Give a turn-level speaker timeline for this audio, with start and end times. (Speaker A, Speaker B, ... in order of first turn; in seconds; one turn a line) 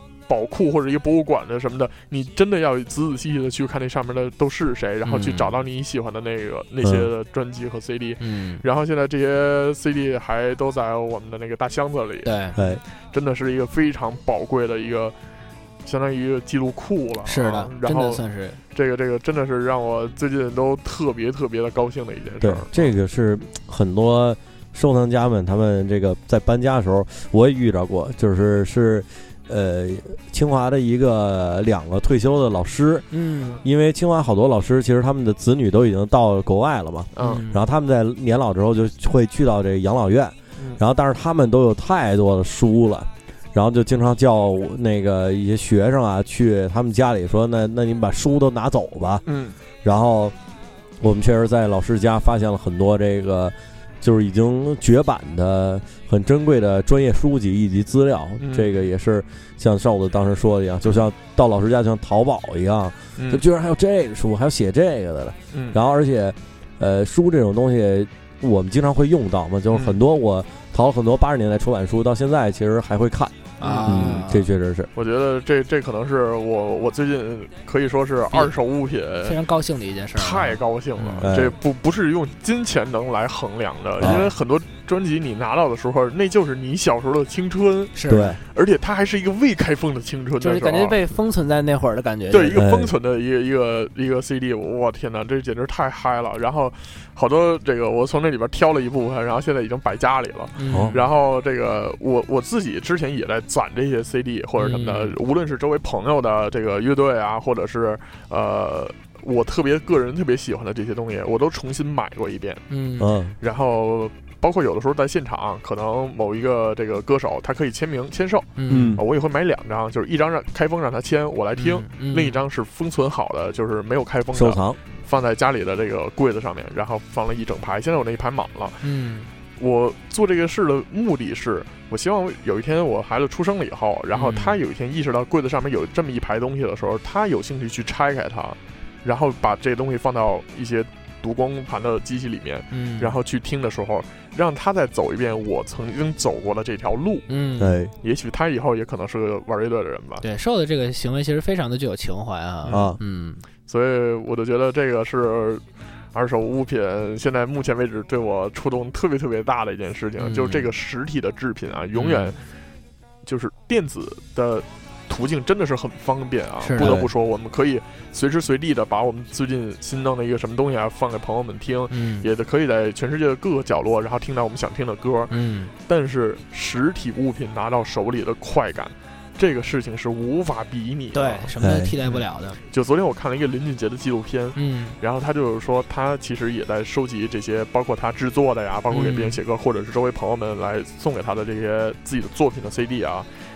Speaker A: 0.3-12.3
Speaker B: 5.0-5.5
Speaker C: 6.8-7.1
Speaker B: 8.2-8.6
Speaker B: 12.2-12.6
Speaker C: 12.6-12.8
Speaker A: 13.1-15.1
Speaker A: 15.8-18.2
Speaker B: 17.3-18.6
Speaker A: 18.7-22.9
Speaker C: 22.4-33.1
Speaker B: 33.1-33.6
Speaker C: 33.6-49.2
Speaker A: 37.2-37.4
Speaker B: 37.2-37.6
Speaker A: 49.3-49.6
Speaker C: 49.8-50.3
Speaker C: 51.0-74.9
Speaker A: 58.4-58.8
Speaker A: 63.2-63.4
Speaker A: 65.5-65.8
Speaker A: 69.7-70.0
Speaker B: 73.6-74.5
Speaker A: 73.6-74.2
Speaker A: 75.0-79.4
Speaker B: 79.2-81.3
Speaker A: 80.2-91.0
Speaker C: 81.2-81.5
Speaker C: 84.0-84.3
Speaker B: 84.0-84.3
Speaker B: 88.0-88.4
Speaker C: 88.1-88.4
Speaker B: 90.4-92.6
Speaker A: 92.3-112.7
Speaker C: 92.5-92.9
Speaker B: 100.6-101.0
Speaker C: 100.7-101.0
Speaker B: 104.6-105.2
Speaker B: 112.7-113.1
Speaker C: 113.0-113.3
Speaker A: 113.4-128.8
Speaker B: 118.6-119.0
Speaker C: 118.7-119.0
Speaker B: 121.6-122.4
Speaker C: 124.3-124.8
Speaker B: 128.8-129.3
Speaker A: 129.6-147.3
Speaker B: 134.1-134.6
Speaker B: 142.7-143.1
Speaker B: 147.3-147.8
Speaker C: 147.6-147.9
Speaker A: 148.0-150.2
Speaker B: 150.2-153.4
Speaker A: 152.6-152.9
Speaker C: 152.7-153.0
Speaker A: 153.7-155.6
Speaker A: 156.1-162.4
Speaker B: 160.2-160.7
Speaker B: 161.9-162.4
Speaker A: 163.2-181.5
Speaker B: 166.6-167.0
Speaker C: 166.8-167.1
Speaker B: 171.9-172.3
Speaker B: 175.3-175.7
Speaker B: 181.1-182.6
Speaker C: 181.6-181.9
Speaker A: 182.1-193.3
Speaker B: 184.6-185.0
Speaker B: 188.9-189.4